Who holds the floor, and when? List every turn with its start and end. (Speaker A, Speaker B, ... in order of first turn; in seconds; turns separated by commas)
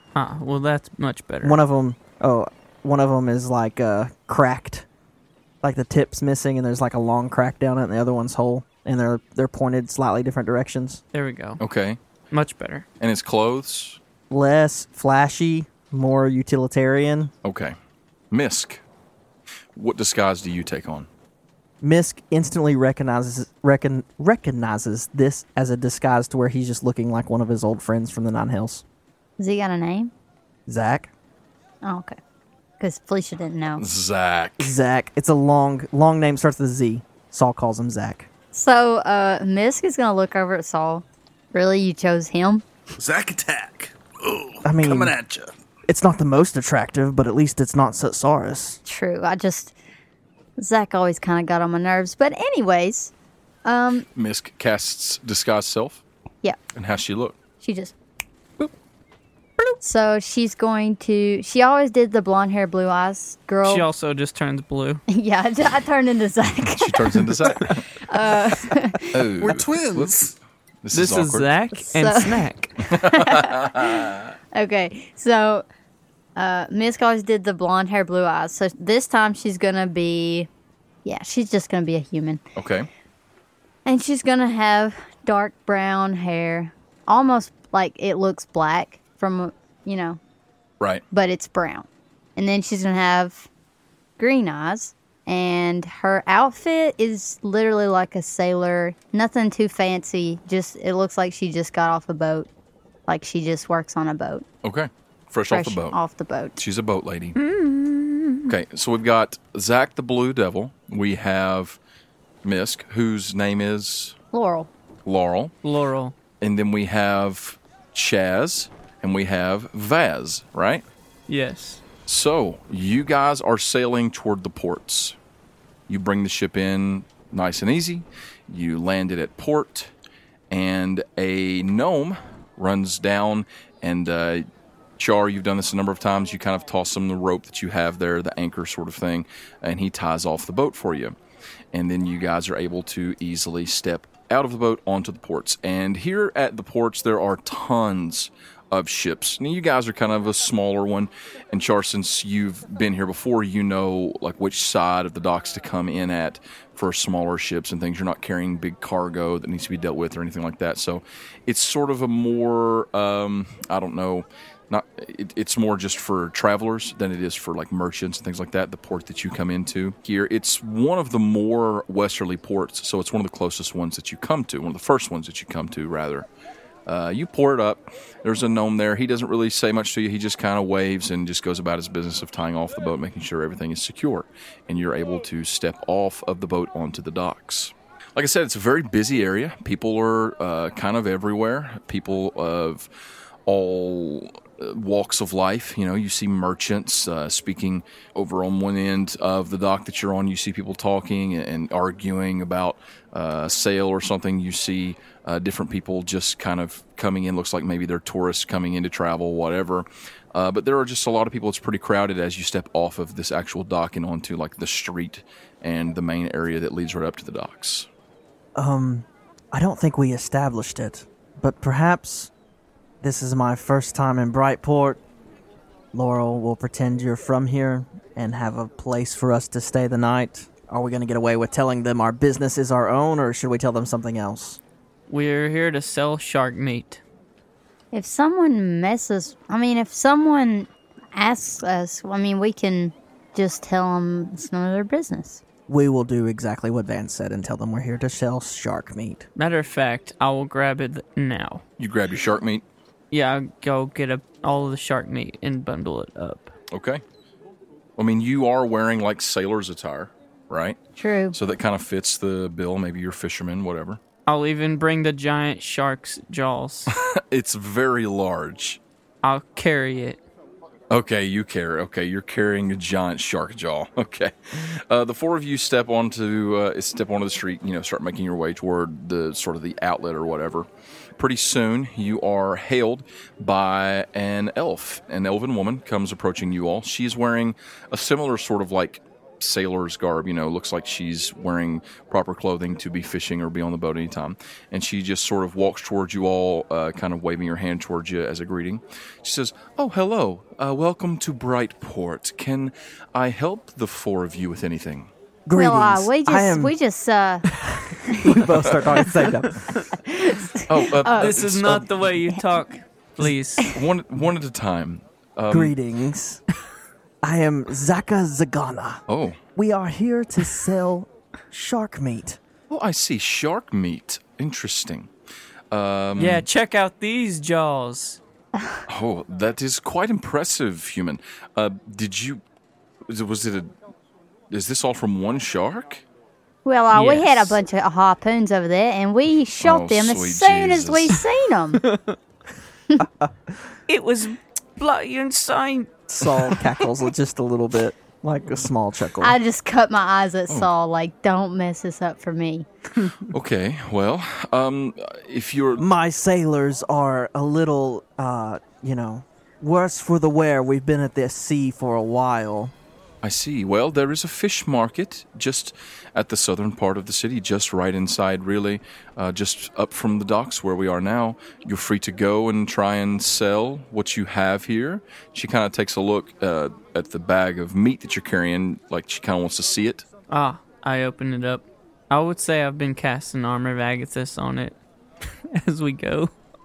Speaker A: 0.1-1.6, Speaker B: 1.4-4.8, Speaker B: 5.6-11.0, Speaker A: 11.1-11.6, Speaker C: 11.6-12.0, Speaker A: 12.3-12.8, Speaker C: 13.0-14.0, Speaker B: 14.3-17.3, Speaker C: 17.4-17.8, Speaker C: 18.3-18.8, Speaker C: 19.7-21.1, Speaker B: 21.8-28.8, Speaker D: 29.4-30.1, Speaker B: 30.7-31.1, Speaker D: 31.8-32.2, Speaker D: 32.8-33.8, Speaker C: 33.8-34.7, Speaker B: 34.6-38.3, Speaker D: 38.5-42.6, Speaker E: 42.9-45.5, Speaker B: 44.6-45.1, Speaker B: 45.9-48.8, Speaker D: 48.9-49.7, Speaker D: 50.6-53.1, Speaker D: 53.6-54.0, Speaker C: 54.1-56.0, Speaker C: 56.7-57.4, Speaker D: 57.6-57.9, Speaker D: 59.8-63.9, Speaker A: 63.6-65.0, Speaker D: 65.1-69.3, Speaker C: 66.7-67.9, Speaker C: 69.1-70.2, Speaker E: 69.4-70.3, Speaker C: 70.8-71.5, Speaker A: 70.9-72.8, Speaker D: 71.7-75.6, Speaker C: 72.9-74.3, Speaker D: 76.3-80.5, Speaker D: 81.0-82.4, Speaker C: 82.5-82.9, Speaker D: 83.8-90.2, Speaker D: 91.1-93.5, Speaker D: 94.2-102.5, Speaker D: 103.1-104.4, Speaker C: 104.6-106.0, Speaker D: 105.5-106.6, Speaker C: 106.6-107.4, Speaker A: 107.3-108.5, Speaker C: 108.5-111.8, Speaker C: 112.4-114.2, Speaker D: 114.3-114.7, Speaker C: 115.0-115.5, Speaker A: 115.6-116.1, Speaker C: 116.4-120.8, Speaker A: 121.3-121.8, Speaker C: 122.1-125.2, Speaker C: 125.9-129.9, Speaker C: 130.5-134.4, Speaker C: 135.0-141.2, Speaker C: 141.7-176.3, Speaker C: 176.8-192.9, Speaker C: 193.4-217.9, Speaker B: 218.6-222.3, Speaker B: 223.0-225.0, Speaker B: 225.9-234.6, Speaker A: 235.1-237.0, Speaker D: 237.9-245.4, Speaker B: 245.7-249.2, Speaker A: 249.3-251.6, Speaker C: 251.8-252.6, Speaker A: 253.1-256.5, Speaker C: 256.7-257.0, Speaker C: 258.0-260.8, Speaker D: 261.0-261.4, Speaker C: 261.3-264.0, Speaker A: 264.2-266.9, Speaker C: 266.9-268.8, Speaker A: 269.2-270.2, Speaker C: 270.9-280.7, Speaker C: 281.2-305.1, Speaker B: 305.4-306.7, Speaker D: 305.5-307.5, Speaker B: 307.6-309.7, Speaker D: 308.0-308.5, Speaker D: 309.9-311.4, Speaker C: 310.7-312.0, Speaker A: 311.0-313.7, Speaker C: 313.6-315.8, Speaker B: 315.5-316.4, Speaker B: 317.2-319.0, Speaker C: 319.1-319.4, Speaker B: 319.5-322.4, Speaker C: 322.7-325.1, Speaker C: 325.7-326.4, Speaker A: 326.2-328.2, Speaker C: 328.9-332.4, Speaker C: 333.1-333.7, Speaker C: 334.5-336.0, Speaker D: 336.6-341.8, Speaker A: 336.9-337.6, Speaker C: 339.6-341.2, Speaker A: 341.8-342.1, Speaker B: 343.0-343.5, Speaker A: 343.9-346.6, Speaker B: 346.1-349.4, Speaker D: 349.2-352.6, Speaker C: 353.3-355.8, Speaker B: 355.8-362.7, Speaker C: 363.2-380.1, Speaker A: 380.3-384.8, Speaker A: 385.4-386.3